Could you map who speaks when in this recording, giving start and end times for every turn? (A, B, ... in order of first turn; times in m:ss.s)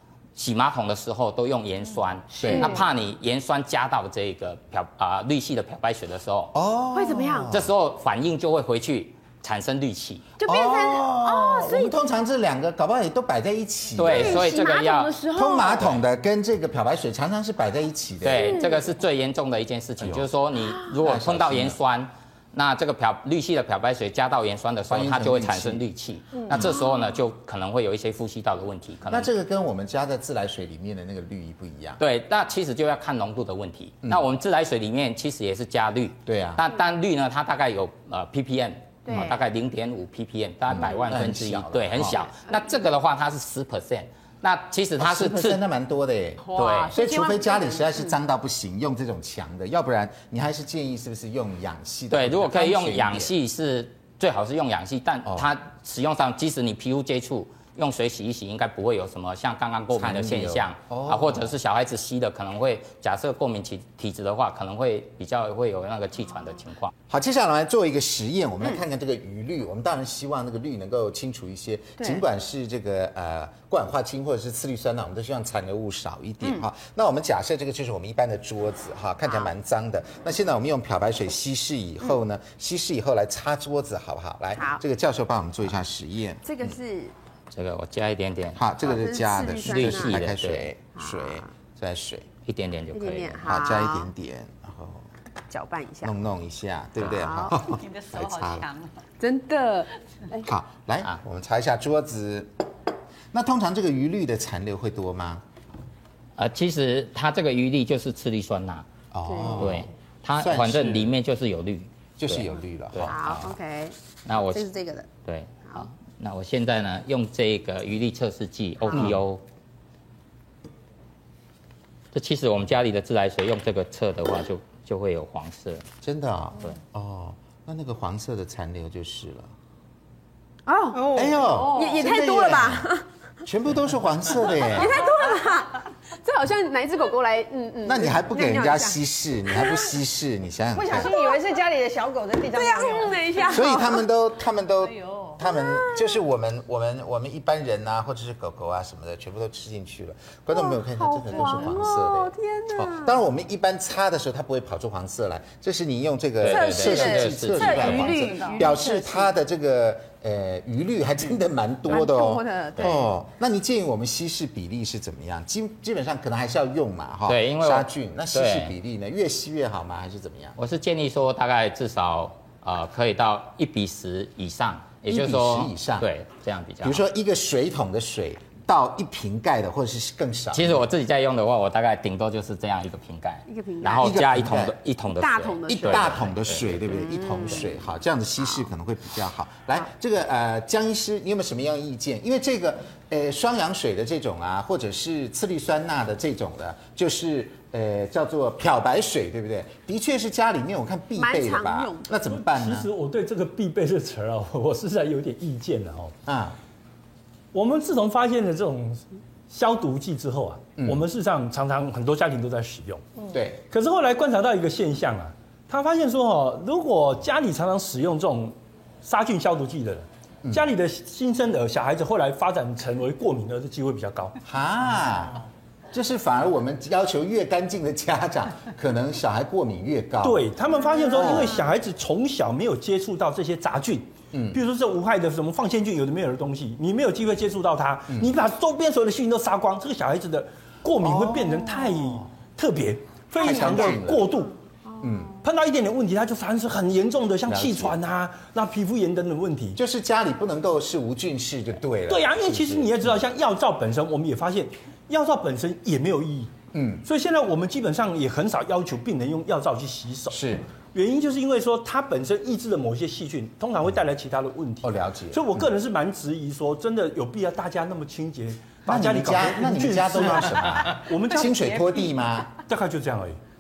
0:00.4-0:06.5 A
0:02.3-0:02.8 B
0:02.4-0:02.8 C
0:06.5-0:07.7 C
0:06.9-0:07.5 B
0:07.5-0:10.3 A
0:10.4-0:11.9 B
0:10.4-0:14.6 C
0:14.0-0:15.1 A
0:14.0-0:15.9 B
0:15.3-0:18.6 C
0:18.2-0:29.3 A
0:18.4-0:18.9 B
0:20.0-0:20.3 C
0:21.0-0:21.8 C
0:24.9-0:25.8 C
0:26.5-0:26.8 C
0:26.5-0:26.8 B
0:29.1-0:32.0 C
0:32.0-0:45.6 A
0:36.2-0:36.6 C
0:39.0-0:39.4 B
0:39.1-0:39.4 C
0:40.7-0:42.3 C
0:45.0-0:53.3 C
0:46.4-0:48.1 B
0:46.5-0:46.9 A
0:52.1-1:06.9 A
0:59.9-1:01.5 C
1:07.1-1:26.7 C
1:24.6-1:24.8 B
1:26.4-1:27.1 B
1:27.5-1:28.7 A
1:28.6-1:32.3 C
1:28.8-1:30.2 B
1:29.6-1:30.7 A
1:31.0-1:31.5 B
1:32.4-1:33.7 A
1:32.9-1:34.1 B
1:33.4-1:35.0 C
1:35.5-1:36.1 B
1:36.0-1:38.6 C
1:37.1-1:37.5 B
1:37.5-1:38.9 D
1:39.2-1:40.4 B
1:40.4-1:42.5 C
1:43.3-1:45.4 C
1:46.4-1:48.8 A
1:49.1-1:49.9 C
1:49.2-1:49.8 B
1:49.6-1:53.5 A
1:50.4-1:51.1 C
1:52.2-1:53.2 C
1:53.1-1:55.1 B
1:54.2-1:54.6 A
1:55.2-1:59.4 A
1:58.9-1:59.2 C
2:02.1-2:05.8 A
2:06.0-2:09.5 C
2:10.6-2:13.0 B
2:10.9-2:12.0 E
2:11.1-2:12.9 C
2:13.4-2:15.0 C
2:14.6-2:19.0 B
2:17.8-2:21.1 C
2:19.5-2:19.9 B
2:20.8-2:23.5 E
2:20.9-2:21.4 B
2:22.5-2:24.0 B
2:23.4-2:50.6 C
2:25.3-2:26.2 B
2:30.5-2:33.1 B
2:36.4-2:38.1 A
2:36.4-2:39.3 B
2:38.0-2:38.6 D
2:41.9-2:43.1 B
2:47.3-2:48.7 A
2:50.6-2:57.0 A
2:55.1-2:56.1 C
2:56.8-3:00.9 C
3:00.5-3:06.8 A
3:03.5-3:04.1 B
3:04.0-3:04.8 C
3:05.2-3:06.3 B
3:05.7-3:22.9 C
3:06.9-3:07.7 B
3:21.2-3:22.1 B
3:22.2-3:26.1 F
3:26.2-3:26.6 C
3:27.5-3:33.0 F
3:30.8-3:31.0 C
3:33.3-3:33.6 C
3:33.7-3:44.4 F
3:44.4-3:50.5 C
3:50.2-4:04.5 F
3:51.1-3:51.6 C
3:54.3-3:54.6 C
4:01.0-4:02.3 C
4:03.4-4:04.3 C
4:05.0-4:05.3 C
4:05.4-4:09.8 F
4:07.5-4:08.0 C
4:09.7-4:13.1 C
4:12.1-4:16.5 F
4:16.7-4:17.0 C
4:17.0-4:20.4 F
4:20.3-4:20.6 C
4:20.9-4:33.4 F
4:24.8-4:25.7 C
4:28.9-4:32.5 C